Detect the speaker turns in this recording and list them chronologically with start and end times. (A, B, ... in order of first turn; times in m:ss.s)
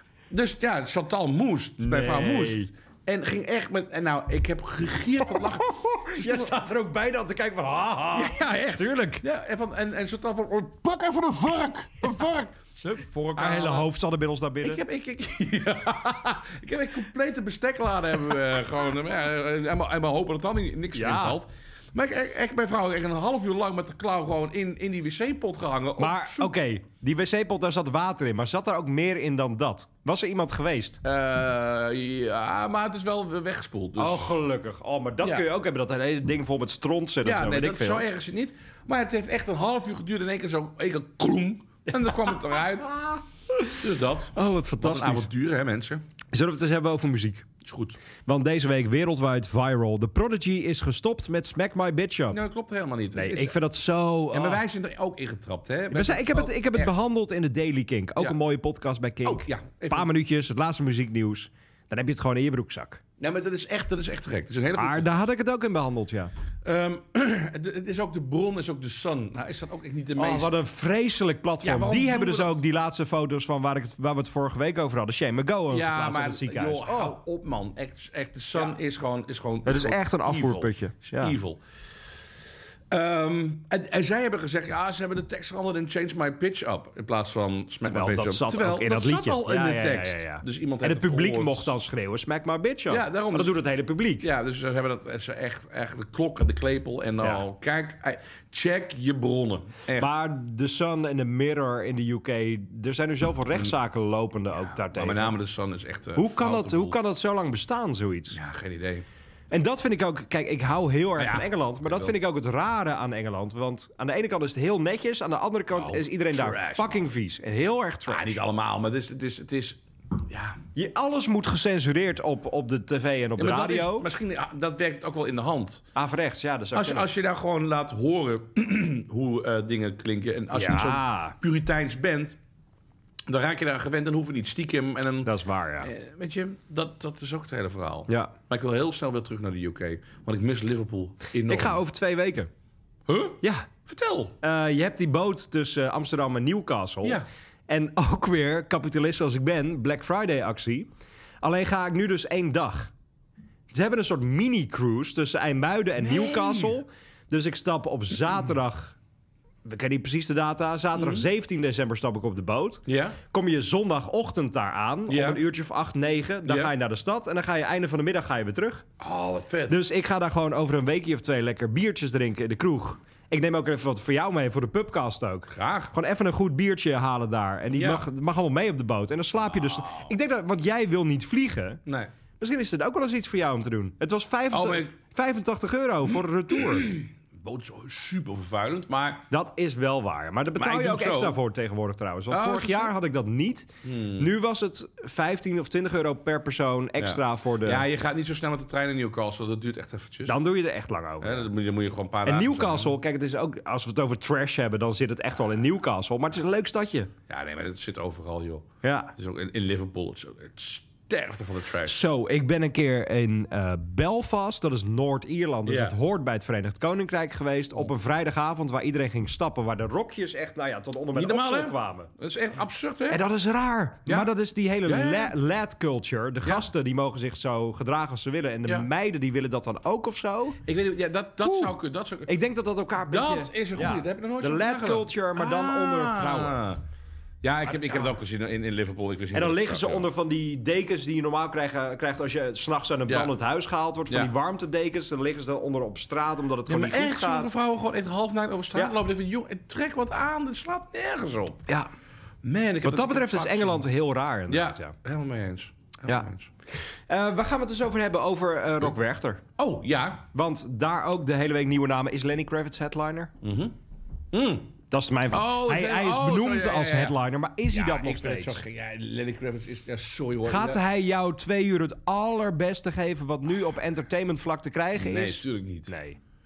0:00.3-0:06.6 A
0:01.8-0:02.7 B
0:05.4-0:09.2 B
0:08.1-0:13.8 A
0:13.4-0:14.8 B
0:14.6-0:26.5 A
0:20.9-0:21.4 B
0:26.0-0:31.0 B
0:31.0-0:34.4 A
0:34.0-0:38.0 B
0:37.2-0:46.0 A
0:43.5-0:45.3 B
0:46.3-0:47.4 B
0:47.6-0:48.0 A
0:48.2-0:52.4 B
0:52.3-0:53.5 A
0:53.1-0:54.6 B
0:54.3-0:56.9 A
0:55.9-1:03.0 B
0:59.2-1:00.1 A
1:03.2-1:05.1 A
1:04.8-1:06.3 B
1:06.6-1:10.5 A
1:10.2-1:17.2 B
1:11.6-1:12.6 A
1:15.7-1:21.6 A
1:19.6-1:21.3 B
1:22.9-1:31.7 A
1:27.9-1:34.2 B
1:32.9-1:33.6 A
1:34.2-1:40.2 A
1:40.0-1:45.3 B
1:44.6-1:47.0 A
1:46.2-1:48.4 B
1:48.3-1:49.0 A
1:49.5-1:58.4 B
1:51.2-1:52.1 A
1:55.7-1:57.0 A
1:58.1-2:00.6 A
2:00.7-2:04.1 B
2:03.4-2:05.8 A
2:05.9-2:07.1 B
2:06.7-2:12.4 A
2:10.5-2:11.4 B
2:13.3-2:21.8 A
2:15.2-2:15.9 B
2:21.5-2:22.5 B
2:23.1-2:24.3 A
2:23.4-2:23.7 B
2:24.4-2:30.9 B
2:31.4-2:32.9 B
2:33.7-2:39.0 B
2:36.0-2:36.7 A
2:39.6-2:48.8 B
2:41.0-2:41.2 A
2:42.9-2:43.2 A
2:45.1-2:45.4 A
2:46.4-2:46.7 A
2:49.0-2:49.8 A
2:49.7-3:01.8 B
2:55.5-2:55.9 A
2:57.7-2:58.0 A
2:59.5-3:00.1 A
3:02.4-3:06.9 B
3:04.5-3:04.9 A
3:06.7-3:09.3 A
3:09.3-3:17.8 B
3:10.6-3:11.4 A
3:12.3-3:12.9 A
3:13.8-3:14.3 A
3:17.0-3:20.4 A
3:20.3-3:21.5 B
3:21.2-3:22.9 A
3:22.2-3:27.1 B
3:27.3-3:32.0 A
3:28.8-3:29.1 B
3:31.8-3:42.1 B
3:35.6-3:35.9 A
3:41.1-3:43.2 A
3:43.1-3:50.6 B
3:44.8-3:45.3 A
3:50.6-3:52.3 A
3:51.4-3:56.6 B
3:53.1-3:56.8 A
3:57.4-4:00.1 A
3:57.7-3:58.1 B
3:59.3-4:07.5 B
4:03.1-4:03.3 A
4:06.7-4:11.6 A
4:12.4-4:13.8 A
4:12.8-4:14.9 B
4:14.5-4:16.5 A
4:17.1-4:19.4 B
4:19.6-4:20.3 A
4:20.3-4:23.3 B
4:23.4-4:23.8 A
4:24.3-4:24.7 A
4:24.9-4:28.6 B
4:25.3-4:27.2 A
4:27.7-4:30.8 A
4:30.4-4:36.2 B
4:34.9-4:35.9 A